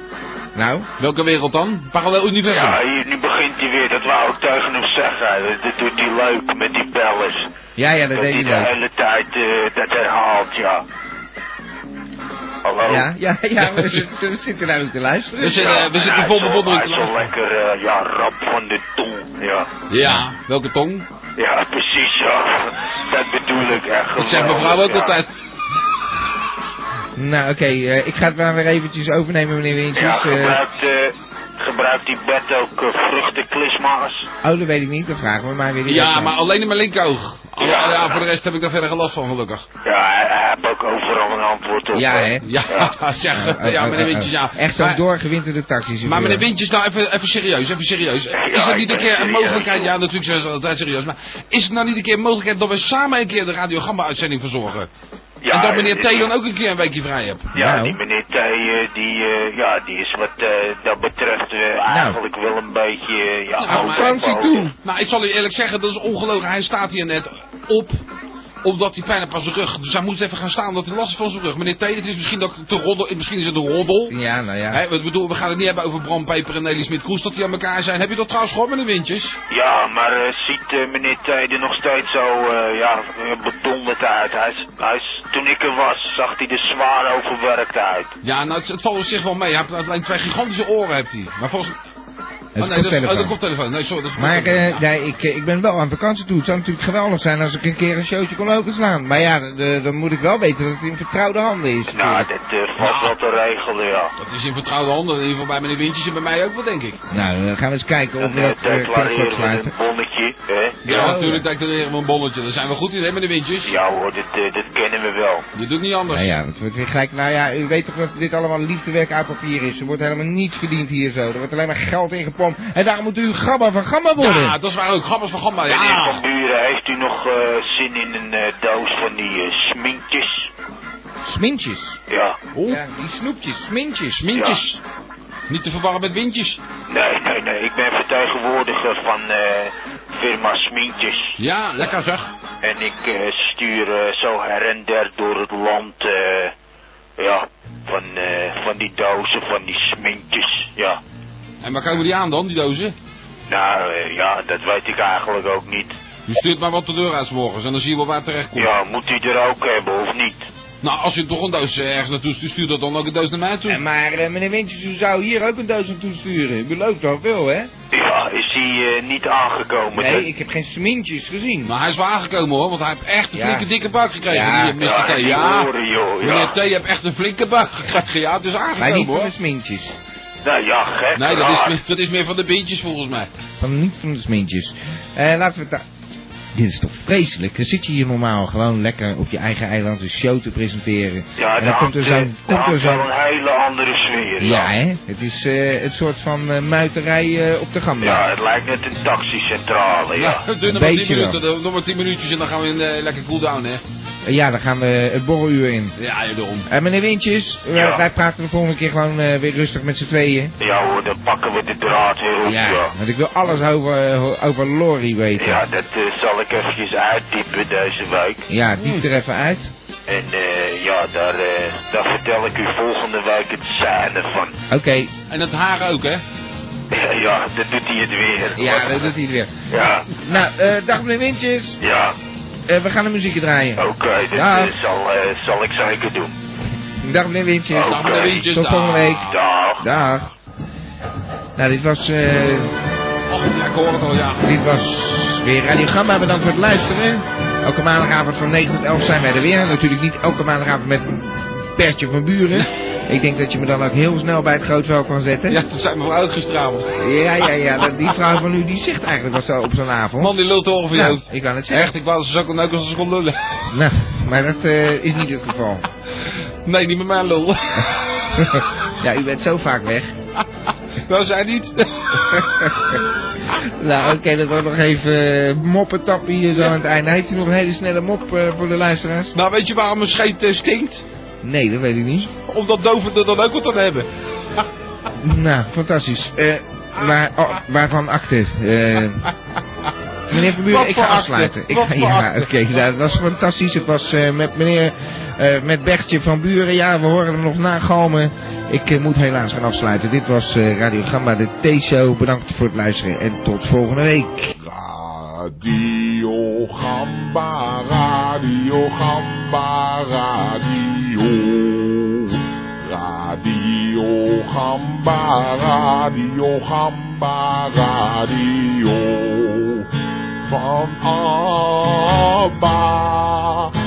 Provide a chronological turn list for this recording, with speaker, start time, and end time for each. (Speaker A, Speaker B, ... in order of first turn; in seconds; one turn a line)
Speaker A: 0.5-0.9
Speaker B: 1.0-2.8
Speaker C: 2.5-7.5
Speaker A: 7.8-8.7
Speaker C: 8.1-10.8
Speaker C: 12.6-13.1
Speaker A: 12.8-15.8
Speaker B: 13.6-14.0
Speaker B: 15.4-17.3
Speaker C: 15.6-19.7
Speaker B: 19.9-21.1
Speaker C: 21.4-25.2
Speaker B: 24.2-25.3
Speaker A: 27.2-30.6
Speaker C: 29.9-34.3
Speaker A: 34.4-36.3
Speaker B: 35.9-39.6
Speaker C: 37.6-38.2
Speaker C: 39.8-42.9
Speaker A: 41.9-42.4
Speaker B: 42.4-45.0
Speaker A: 43.3-46.4
Speaker B: 46.0-54.9
Speaker C: 48.3-49.9
Speaker C: 55.4-56.3
Speaker B: 55.5-57.5
Speaker C: 57.5-64.6
Speaker A: 57.5-58.0
Speaker A: 61.9-62.2
Speaker B: 63.6-68.0
Speaker A: 63.6-64.7
Speaker B: 68.6-74.1
Speaker A: 74.1-74.8
Speaker B: 74.7-79.4
Speaker C: 79.5-88.1
Speaker B: 88.2-91.7
Speaker A: 92.5-93.4
Speaker B: 92.6-94.8
Speaker A: 94.2-102.3
Speaker C: 101.9-104.1
Speaker B: 102.8-103.2
Speaker B: 104.2-107.0
Speaker A: 107.1-109.7
Speaker C: 108.2-111.1
Speaker B: 110.8-113.7
Speaker A: 110.9-111.4
Speaker C: 113.7-115.4
Speaker B: 115.5-116.3
Speaker A: 116.1-124.6
Speaker B: 124.2-126.2
Speaker C: 125.7-130.5
Speaker A: 131.2-132.0
Speaker C: 132.1-132.4
Speaker B: 132.5-132.8
Speaker A: 132.7-134.2
Speaker B: 134.2-134.8
Speaker C: 134.3-134.6
Speaker B: 135.5-136.6
Speaker C: 136.9-141.3
Speaker B: 141.4-142.3
Speaker C: 142.6-146.5
Speaker C: 147.2-151.0
Speaker B: 151.6-152.9
Speaker C: 153.5-155.9
Speaker B: 156.3-158.7
Speaker C: 158.6-160.5
Speaker B: 160.8-163.8
Speaker A: 163.7-167.7
Speaker C: 167.9-170.3
Speaker A: 169.9-171.7
Speaker B: 171.7-179.3
Speaker A: 173.3-173.7
Speaker A: 174.2-174.8
Speaker C: 174.8-176.5
Speaker A: 178.8-180.0
Speaker C: 180.4-181.8
Speaker B: 181.1-183.3
Speaker A: 183.6-185.8
Speaker A: 186.5-193.1
Speaker C: 191.4-194.7
Speaker A: 194.4-198.3
Speaker C: 198.0-200.4
Speaker B: 200.1-203.8
Speaker A: 200.6-201.4
Speaker A: 204.2-205.9
Speaker B: 206.0-206.7
Speaker A: 206.7-210.5
Speaker C: 207.7-208.0
Speaker C: 210.6-212.9
Speaker A: 212.4-215.6
Speaker C: 215.4-218.4
Speaker A: 218.5-219.7
Speaker B: 218.8-219.1
Speaker C: 220.1-224.6
Speaker A: 224.7-225.1
Speaker B: 225.3-226.2
Speaker C: 226.9-229.1
Speaker A: 228.6-229.5
Speaker C: 229.7-230.1
Speaker A: 230.2-231.8
Speaker C: 231.8-232.1
Speaker A: 232.7-234.8
Speaker C: 233.8-236.3
Speaker A: 237.0-240.3
Speaker B: 237.7-239.4
Speaker C: 237.8-238.4
Speaker C: 239.3-239.8
Speaker B: 239.9-240.3
Speaker A: 241.6-242.8
Speaker B: 243.3-244.4
Speaker A: 244.4-255.6
Speaker B: 255.5-257.0
Speaker A: 257.0-260.4
Speaker B: 260.2-263.4
Speaker A: 260.9-261.9
Speaker A: 263.7-265.9
Speaker B: 266.6-267.9
Speaker A: 268.4-270.1
Speaker B: 271.0-272.5
Speaker A: 272.3-273.0
Speaker A: 273.6-279.4
Speaker B: 279.3-281.0
Speaker A: 281.4-282.3
Speaker B: 282.5-284.6
Speaker A: 285.2-289.2
Speaker B: 286.9-287.6
Speaker A: 290.3-304.5
Speaker B: 290.3-292.8
Speaker D: 304.6-319.8
Speaker D: 320.5-323.7